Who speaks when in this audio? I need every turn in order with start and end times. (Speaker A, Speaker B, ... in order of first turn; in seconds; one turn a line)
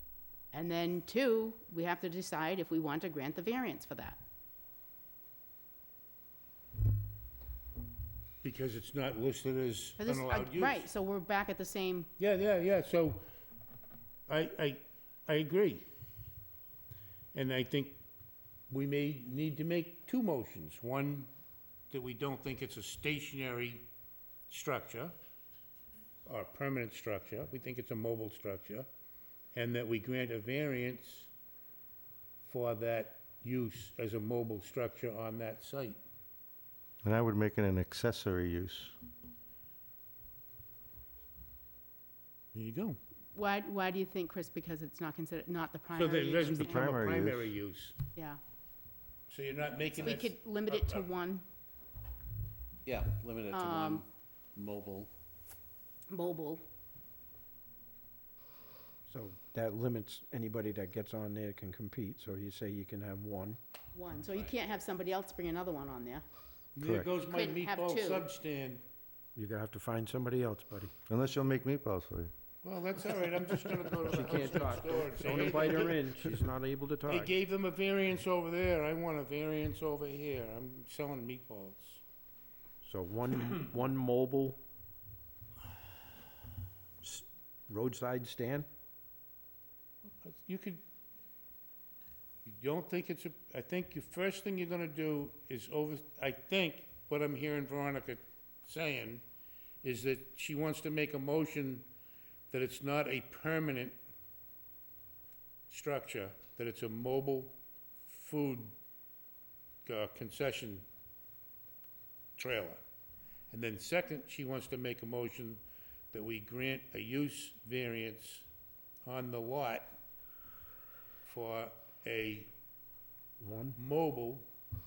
Speaker A: 0.5-4.2
Speaker B: 8.4-10.9
Speaker A: 10.0-12.1
Speaker B: 12.2-13.2
Speaker B: 14.3-15.8
Speaker B: 17.3-18.0
Speaker B: 18.7-21.3
Speaker B: 21.9-23.9
Speaker B: 24.5-25.1
Speaker B: 26.3-28.9
Speaker B: 29.5-31.3
Speaker B: 32.4-36.0
Speaker C: 37.0-39.0
Speaker B: 42.5-43.0
Speaker A: 43.3-46.9
Speaker B: 46.0-48.0
Speaker C: 46.5-47.5
Speaker A: 48.1-48.4
Speaker B: 49.3-51.1
Speaker A: 50.0-51.5
Speaker D: 52.9-55.1
Speaker A: 53.5-54.0
Speaker A: 56.1-56.6
Speaker E: 59.1-63.6
Speaker A: 63.9-66.2
Speaker B: 66.8-68.8
Speaker C: 66.8-67.1
Speaker A: 67.2-68.3
Speaker E: 69.3-70.9
Speaker C: 71.1-72.3
Speaker B: 72.6-76.4
Speaker E: 74.0-77.3
Speaker B: 77.1-82.0
Speaker E: 82.8-84.6
Speaker E: 87.0-88.7
Speaker B: 90.2-90.8
Speaker B: 92.5-99.2
Speaker B: 99.8-101.9
Speaker B: 102.5-104.0
Speaker B: 105.7-108.7
Speaker B: 109.8-110.9
Speaker B: 112.4-112.8
Speaker B: 113.5-115.6
Speaker B: 116.1-118.5
Speaker B: 119.0-119.9
Speaker B: 121.2-122.5
Speaker E: 123.4-123.8
Speaker B: 123.8-124.5